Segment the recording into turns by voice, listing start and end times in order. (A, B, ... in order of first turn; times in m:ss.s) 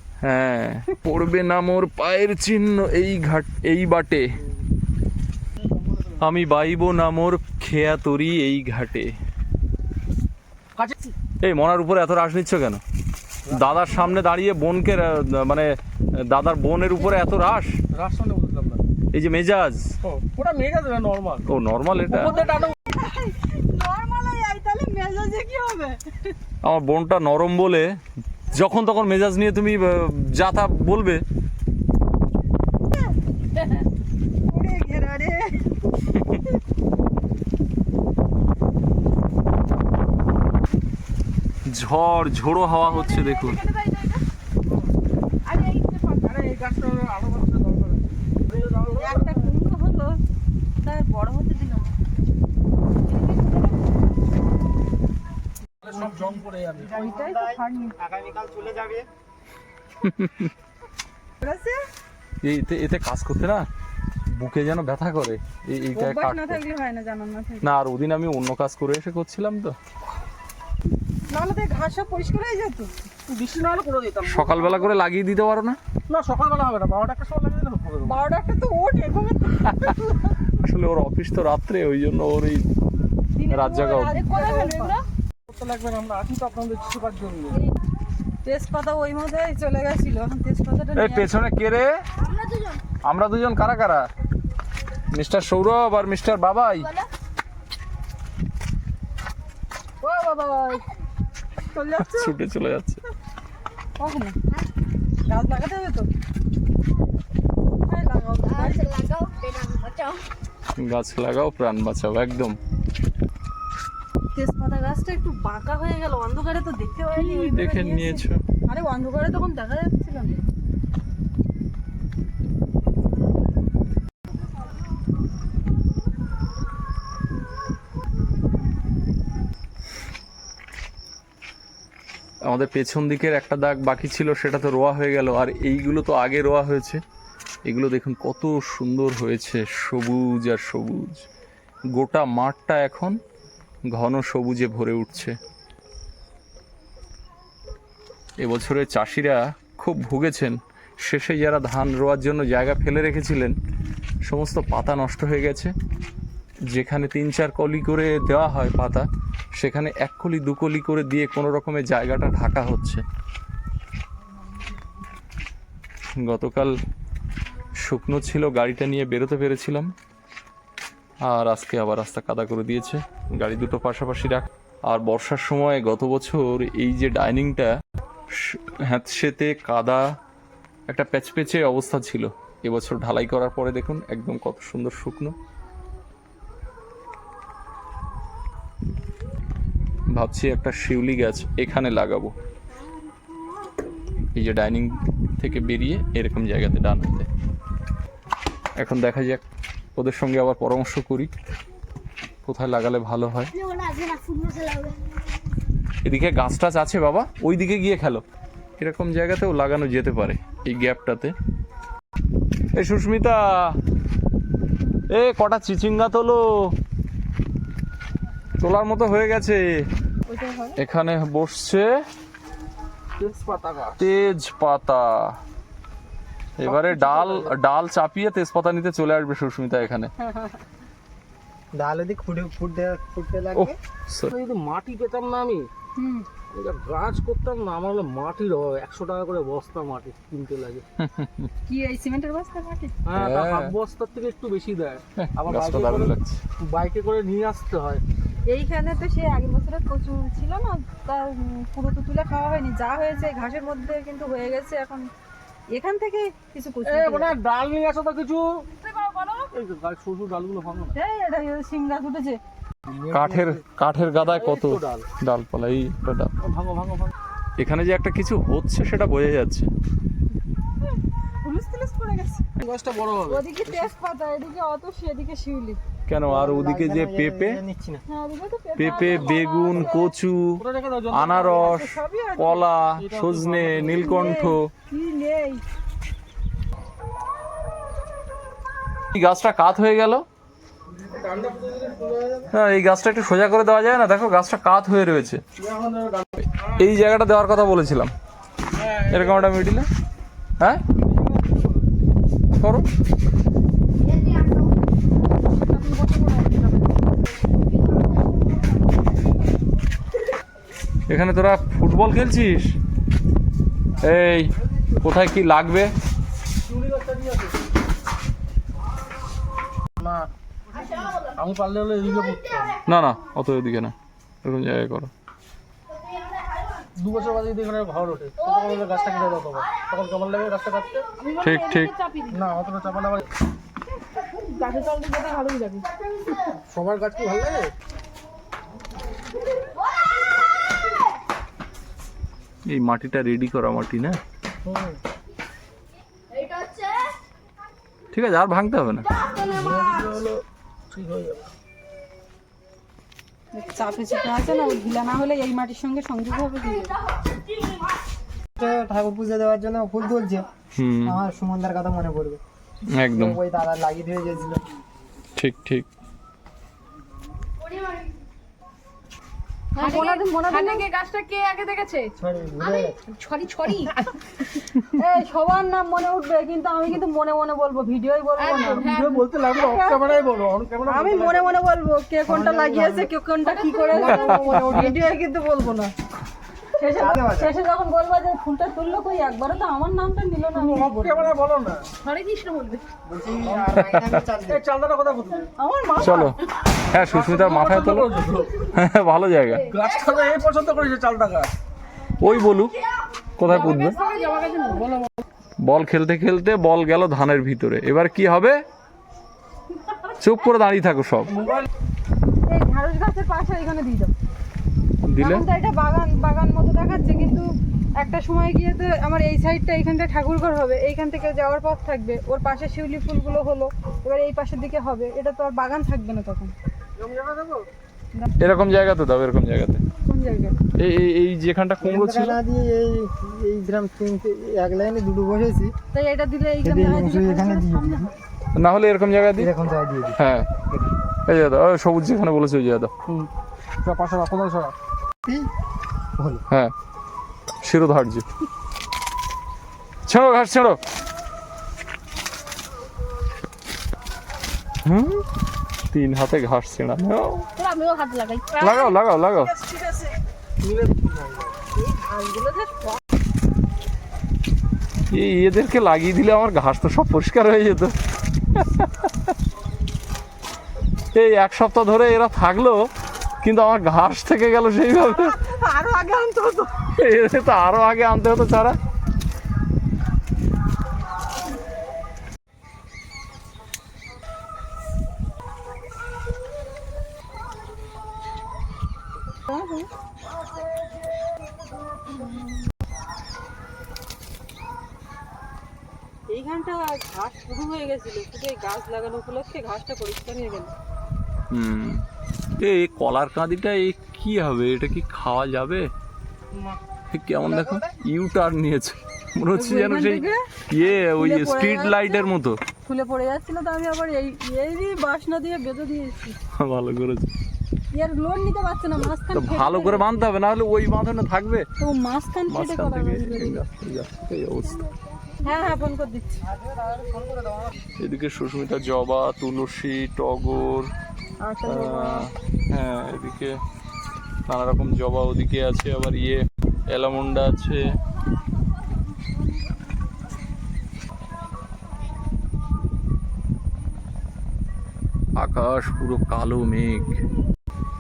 0:00.2-0:04.3 A
0:05.7-0:06.3 B
0:06.2-0:09.1 A
0:10.8-0:11.2 B
0:11.4-0:12.8 A
0:13.5-0:14.2 B
0:13.5-0:17.8 A
0:17.9-0:18.8 B
0:19.1-0:19.9 A
0:20.1-0:21.5 B
0:21.5-0:22.3 A
0:22.1-0:22.8 B
0:22.2-0:26.4 C
0:26.6-0:27.9 A
0:28.5-0:31.2 A
0:34.5-0:36.1 C
0:36.1-0:36.4 A
0:41.7-0:43.6 A
0:42.9-0:44.2 D
0:45.4-0:46.2 D
0:46.2-0:49.5 B
0:49.0-0:50.2 C
0:50.8-0:51.9 C
0:53.2-0:53.5 D
0:55.8-0:57.0 B
0:56.8-0:59.1 E
0:56.9-0:58.0 C
1:00.0-1:00.5 A
1:01.4-1:01.8 C
1:02.4-1:03.7 A
1:04.4-1:06.6 A
1:05.9-1:07.7 C
1:07.6-1:09.8 A
1:11.3-1:12.9 C
1:13.3-1:14.9 B
1:14.3-1:15.8 A
1:16.1-1:18.2 B
1:18.0-1:20.4 C
1:20.6-1:22.7 A
1:23.4-1:25.0 C
1:23.5-1:24.2 A
1:24.2-1:25.0 D
1:25.5-1:27.6 B
1:28.4-1:31.3 C
1:31.0-1:31.9 A
1:32.5-1:32.8 D
1:33.0-1:34.0 A
1:35.1-1:36.9 A
1:40.0-1:40.8 C
1:41.7-1:42.4 C
1:42.0-1:43.0 A
1:44.0-1:44.4 C
1:45.3-1:46.1 C
1:47.9-1:49.1 C
1:49.2-1:50.1 D
1:50.8-1:52.6 A
1:54.4-2:00.4 C
1:57.2-1:58.4 A
2:12.5-2:17.0 A
2:17.7-2:21.3 A
2:22.0-2:23.2 A
2:23.9-2:25.3 A
2:28.4-2:33.6 A
2:34.3-2:35.7 A
2:36.7-2:43.0 A
2:46.2-2:46.7 A
2:47.8-2:49.9 A
2:51.3-2:57.7 A
2:58.3-3:00.0 A
3:00.9-3:05.4 A
3:10.1-3:12.3 A
3:14.4-3:17.3 A
3:18.8-3:19.4 A
3:20.0-3:21.3 A
3:22.4-3:23.6 A
3:23.7-3:25.0 D
3:26.0-3:28.2 A
3:28.8-3:31.3 A
3:32.8-3:33.4 A
3:35.1-3:36.4 A
3:38.6-3:39.6 A
3:40.3-3:40.8 C
3:40.8-3:41.9 A
3:43.2-3:44.0 B
3:44.0-3:45.3 A
3:46.6-3:50.1 A
3:46.6-3:47.6 B
3:50.2-3:50.6 C
3:51.7-3:53.8 E
3:53.6-3:54.4 A
3:54.3-3:55.7 B
3:56.0-3:56.3 C
3:56.5-4:00.8 B
4:01.0-4:01.5 A
4:01.7-4:03.0 C
4:03.1-4:08.0 B
4:03.1-4:03.8 A
4:05.2-4:06.4 A
4:08.5-4:15.1 C
4:15.7-4:17.3 C
4:16.8-4:18.5 B
4:19.0-4:19.5 C
4:19.5-4:20.9 B
4:21.0-4:22.4 C
4:22.9-4:23.6 B
4:23.1-4:26.3 A
4:24.2-4:25.1 B
4:26.4-4:27.1 B
4:27.6-4:29.7 A
4:30.8-4:32.4 C
4:32.6-4:33.9 B
4:33.3-4:35.8 C
4:36.1-4:37.6 A
4:36.3-4:38.0 E
4:38.1-4:40.1 C
4:38.8-4:44.7 A
4:40.6-4:41.7 B
4:41.4-4:42.6 C
4:43.0-4:44.2 B
4:44.0-4:45.6 C
4:49.1-4:50.2 A
4:51.2-4:52.5 B
4:52.5-4:55.4 A
4:55.6-4:56.3 B
4:56.4-4:58.1 A
4:58.8-4:59.6 B
4:59.1-4:59.9 A
5:01.0-5:01.8 B
5:02.6-5:02.9 A
5:05.6-5:06.9 B
5:11.1-5:12.7 A
5:14.0-5:14.5 A
5:15.0-5:15.9 A
5:16.6-5:17.6 B
5:20.0-5:20.3 B
5:21.1-5:22.8 B
5:22.9-5:25.1 A
5:27.0-5:31.1 B
5:31.2-5:32.4 D
5:31.4-5:31.9 A
5:32.3-5:33.3 B
5:34.5-5:35.9 D
5:36.6-5:37.7 B
5:42.7-5:44.2 A
5:44.6-5:45.0 B
5:48.1-5:49.1 A
5:49.4-5:51.5 B
5:53.5-5:56.9 C
5:58.6-6:00.5 E
6:00.8-6:01.2 A
6:01.0-6:02.4 E
6:03.0-6:03.4 A
6:03.1-6:04.6 E
6:05.4-6:05.9 A
6:09.8-6:10.8 C
6:09.8-6:12.1 D
6:12.2-6:13.0 E
6:12.6-6:14.0 D
6:14.8-6:18.9 C
6:18.4-6:19.1 D
6:18.7-6:21.6 B
6:19.5-6:20.2 C
6:20.9-6:25.9 C
6:22.3-6:23.1 E
6:23.7-6:24.9 D
6:23.9-6:25.0 E
6:26.8-6:31.3 C
6:27.0-6:27.6 E
6:30.5-6:32.0 B
6:32.0-6:32.8 D
6:33.1-6:34.6 E
6:33.4-6:33.7 B
6:33.8-6:34.2 A
6:34.5-6:35.5 B
6:35.6-6:36.3 C
6:36.0-6:36.4 A
6:36.9-6:39.7 A
6:37.0-6:38.6 B
6:39.6-6:41.5 B
6:42.2-6:42.8 A
6:43.4-6:44.0 A
6:43.7-6:44.7 D
6:44.7-6:45.1 B
6:45.6-6:48.6 A
6:50.2-6:51.4 A
6:52.5-6:54.1 C
6:55.1-6:55.5 A
6:55.2-7:06.5 C
7:07.0-7:07.7 B
7:08.4-7:09.8 A
7:10.1-7:10.6 C
7:10.8-7:12.4 A
7:11.8-7:15.7 E
7:15.9-7:18.2 C
7:16.6-7:18.1 E
7:18.6-7:19.5 A
7:19.4-7:20.2 E
7:20.2-7:20.5 A
7:21.3-7:22.9 A
7:23.8-7:24.8 B
7:26.2-7:26.4 E
7:27.6-7:28.2 A
7:30.1-7:30.8 A
7:34.8-7:35.2 A
7:35.9-7:37.5 A
7:37.6-7:38.8 D
7:38.6-7:39.5 A
7:38.7-7:40.1 C
7:40.6-7:41.6 B
7:41.8-7:43.0 C
7:45.1-7:47.9 A
7:48.6-7:49.3 A
7:51.1-7:52.8 A
7:53.4-7:55.4 A
7:55.0-7:56.7 C
7:57.0-7:58.8 A
8:09.5-8:09.9 C
8:16.3-8:20.7 C
8:21.5-8:22.0 A
8:22.6-8:25.9 A
8:27.1-8:32.6 A
8:29.5-8:30.4 C
8:31.0-8:32.3 C
8:32.8-8:36.4 C
8:36.6-8:37.3 A
8:37.9-8:40.3 C
8:39.3-8:41.7 A
8:41.8-8:43.6 C
8:42.5-8:44.9 A
8:45.4-8:46.4 C
8:46.5-8:47.8 E
8:48.0-8:50.9 A
8:51.4-8:52.3 C
8:51.7-8:53.5 A
8:54.5-8:57.8 A
9:05.4-9:07.2 A